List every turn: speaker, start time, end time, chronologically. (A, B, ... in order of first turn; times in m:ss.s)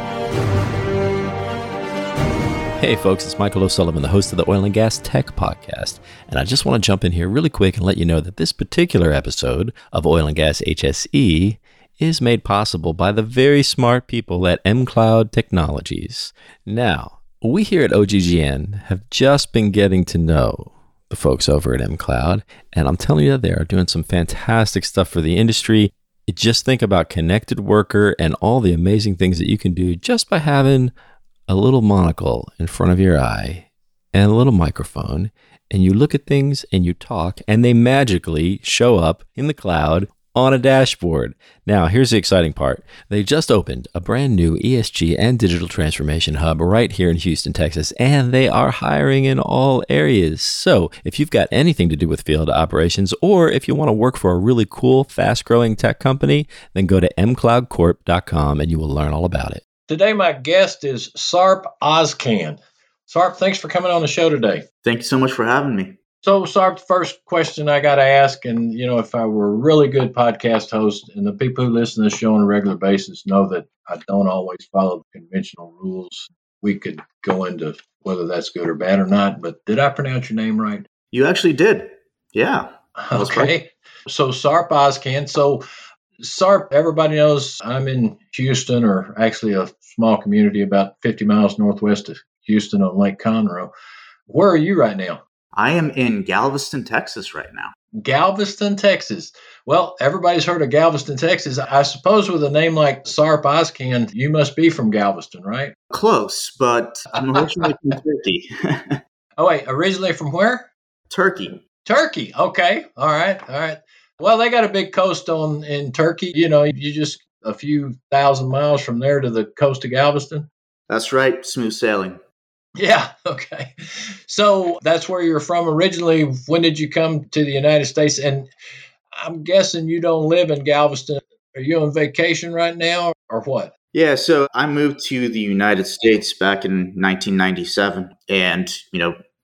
0:02.8-0:30.9 A
0:31.5-0:59.6 A
0:59.9-1:04.6 B
1:04.8-1:06.0 C
1:06.2-1:20.9 B
1:21.1-1:23.5 C
1:23.0-1:25.6 B
1:26.2-1:33.7 B
1:34.3-1:35.2 B
1:35.5-1:37.8 C
1:38.0-1:45.7 B
1:45.9-1:49.0 C
1:49.4-1:50.7 B
1:51.1-1:51.6 C
1:51.8-2:00.5 B
2:00.9-2:02.2 C
2:02.8-2:08.5 B
2:09.1-2:13.7 B
2:13.9-2:19.2 C